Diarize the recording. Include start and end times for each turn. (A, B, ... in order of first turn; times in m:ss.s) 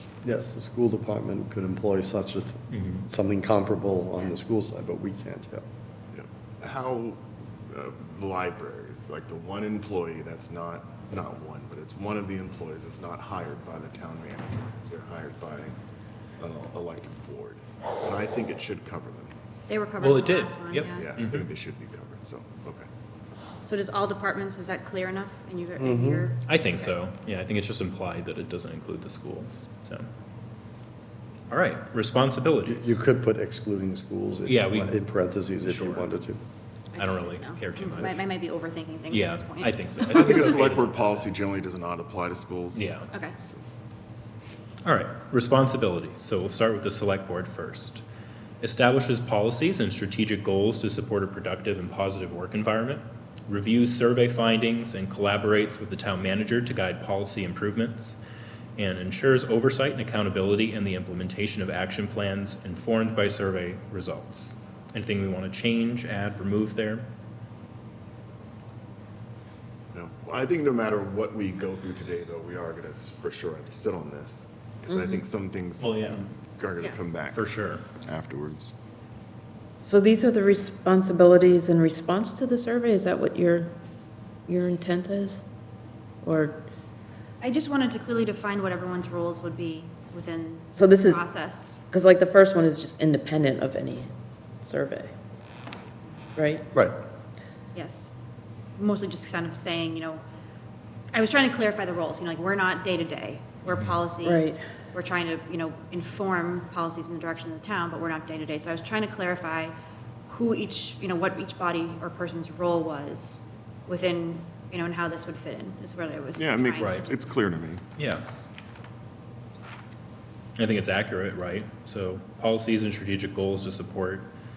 0:00.2-0:05.6 A
0:02.7-0:03.0 B
0:06.1-0:15.7 C
0:16.4-0:19.3 C
0:19.7-0:21.1 D
0:20.0-0:21.5 B
0:21.0-0:22.9 C
0:23.6-0:26.9 D
0:25.8-0:26.3 A
0:26.4-0:30.1 B
0:31.5-0:33.0 B
0:32.6-0:36.4 A
0:34.4-0:35.0 B
0:35.6-0:36.2 B
0:36.9-0:40.4 D
0:37.0-0:38.2 B
0:39.1-0:41.3 B
0:40.1-0:43.6 C
0:42.7-0:43.1 B
0:44.8-0:48.0 B
0:48.6-0:58.2 B
0:58.8-1:07.1 B
1:09.9-1:18.7 C
1:15.8-1:16.2 B
1:17.3-1:17.8 B
1:19.8-1:23.7 E
1:24.5-1:25.4 E
1:26.2-1:26.6 E
1:27.4-1:31.8 D
1:30.8-1:31.2 E
1:31.9-1:34.1 E
1:34.6-1:35.1 E
1:36.4-1:36.6 E
1:37.7-1:38.1 D
1:38.8-1:40.2 D
1:41.1-1:49.7 D
1:43.7-1:44.0 B
1:44.2-1:44.6 E
1:50.3-1:57.2 D
1:56.4-1:57.8 C
1:56.8-1:57.1 B
1:58.0-1:58.2 B
2:00.6-2:04.3 B